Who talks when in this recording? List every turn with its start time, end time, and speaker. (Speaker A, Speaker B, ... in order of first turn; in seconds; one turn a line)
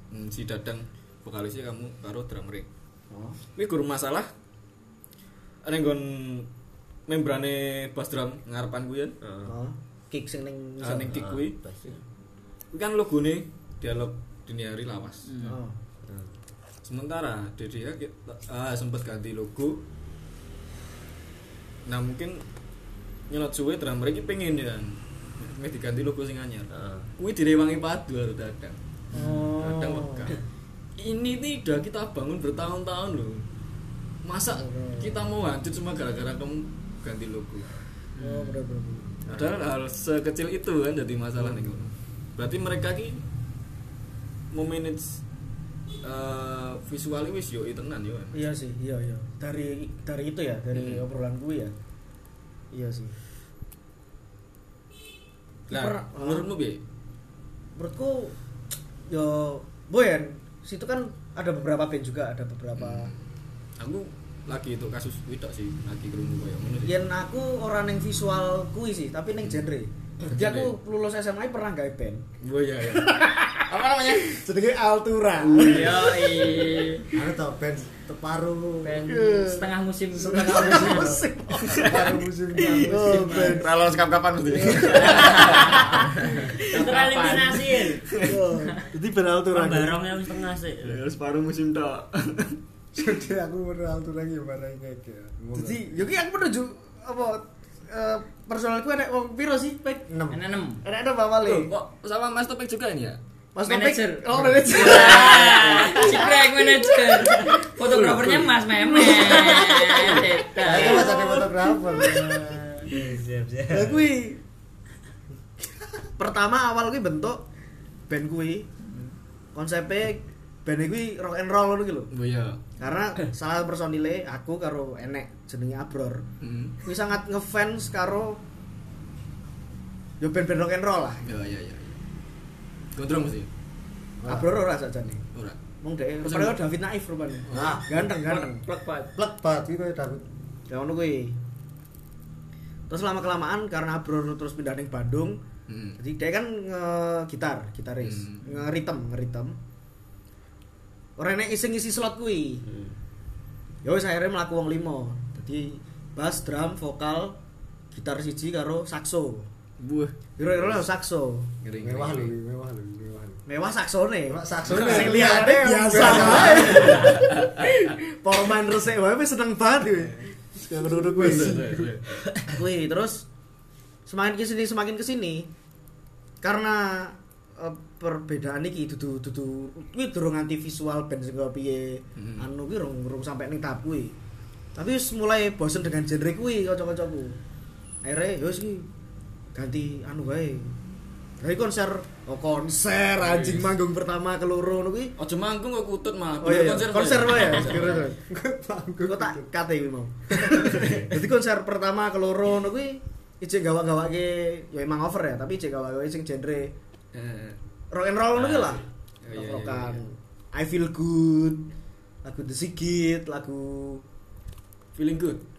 Speaker A: 0.1-2.7
Speaker B: 3.1-3.4
Speaker A: 3.5-4.3
Speaker A: 5.6-6.5
Speaker A: 7.1-9.2
Speaker C: 9.2-9.5
Speaker B: 9.4-11.2
Speaker A: 10.8-11.6
Speaker C: 11.1-12.0
Speaker A: 12.7-15.3
Speaker D: 15.3-15.6
Speaker B: 15.4-15.7
Speaker A: 16.8-19.8
Speaker A: 21.9-22.4
Speaker A: 23.3-30.4
Speaker C: 26.7-27.1
Speaker B: 29.1-30.3
Speaker A: 31.0-33.4
Speaker A: 34.2-37.7
Speaker B: 34.5-35.2
Speaker B: 38.2-39.2
Speaker A: 39.3-43.2
Speaker A: 44.5-45.2
Speaker A: 46.0-48.3
Speaker B: 48.3-51.7
Speaker A: 50.7-51.0
Speaker B: 52.7-53.1
Speaker A: 55.7-56.8
Speaker B: 55.7-56.5
Speaker B: 57.8-58.3
Speaker B: 59.1-63.1
Speaker A: 62.8-63.2
Speaker A: 63.8-67.0
Speaker B: 66.8-72.2
Speaker A: 70.3-70.7
Speaker A: 72.4-74.4
Speaker B: 73.1-73.4
Speaker B: 74.2-76.1
Speaker D: 75.5-77.1
Speaker E: 77.1-79.4
Speaker D: 78.8-81.2
Speaker B: 79.1-79.6
Speaker E: 80.1-83.6
Speaker B: 80.2-82.0
Speaker A: 81.7-82.1
Speaker B: 82.8-83.7
Speaker A: 83.3-86.0
Speaker B: 84.5-85.4
Speaker D: 84.9-87.9
Speaker C: 85.0-86.0
Speaker B: 86.2-86.6
Speaker C: 86.6-88.1
Speaker B: 88.2-90.0
Speaker C: 89.5-91.0
Speaker A: 90.8-92.6
Speaker E: 92.9-95.9
Speaker B: 95.5-100.1
Speaker E: 100.1-100.4
Speaker D: 100.3-100.8
Speaker B: 100.8-101.7
Speaker A: 101.4-103.2
Speaker B: 103.5-106.7
Speaker D: 103.6-111.2
Speaker C: 105.3-106.0
Speaker A: 107.8-108.5
Speaker C: 109.2-112.2
Speaker E: 110.6-112.5
Speaker B: 110.7-111.4
Speaker B: 112.0-112.6
Speaker C: 112.8-114.0
Speaker B: 113.7-114.4
Speaker B: 116.2-117.5
Speaker B: 118.1-118.7
Speaker B: 119.5-122.1
Speaker A: 122.1-122.6
Speaker B: 122.8-126.2
Speaker A: 126.4-126.8
Speaker B: 126.8-128.4
Speaker B: 130.2-131.2
Speaker A: 131.2-132.0
Speaker A: 132.9-133.5
Speaker E: 134.2-134.5
Speaker B: 134.3-135.2
Speaker B: 135.8-138.6
Speaker A: 136.2-136.6
Speaker A: 137.5-137.8
Speaker E: 137.5-137.8
Speaker D: 138.1-139.1
Speaker E: 139.2-140.2
Speaker B: 140.7-141.4
Speaker B: 142.9-145.4
Speaker A: 145.7-146.0
Speaker B: 146.0-149.6
Speaker A: 148.0-148.5
Speaker B: 151.2-152.6
Speaker C: 152.6-152.9
Speaker B: 153.8-157.4
Speaker B: 157.9-159.5
Speaker A: 159.8-160.1
Speaker B: 160.4-161.5
Speaker A: 161.6-162.3
Speaker E: 161.8-163.4
Speaker B: 163.5-171.8
Speaker E: 164.2-167.2
Speaker A: 164.7-165.1
Speaker A: 165.9-167.3
Speaker E: 170.6-171.8
Speaker A: 171.2-172.4
Speaker B: 172.4-173.2
Speaker B: 174.1-175.5
Speaker B: 176.4-184.1
Speaker A: 182.2-182.4
Speaker B: 184.8-187.4
Speaker B: 188.0-188.9
Speaker B: 189.5-190.7
Speaker B: 191.4-195.1
Speaker A: 193.2-193.7
Speaker A: 195.2-198.1
Speaker B: 196.4-198.2
Speaker E: 197.7-199.5
Speaker B: 199.1-206.7
Speaker A: 200.7-201.0
Speaker A: 207.1-207.6
Speaker B: 207.9-211.7
Speaker A: 208.3-210.0
Speaker B: 212.2-214.0
Speaker A: 214.9-215.4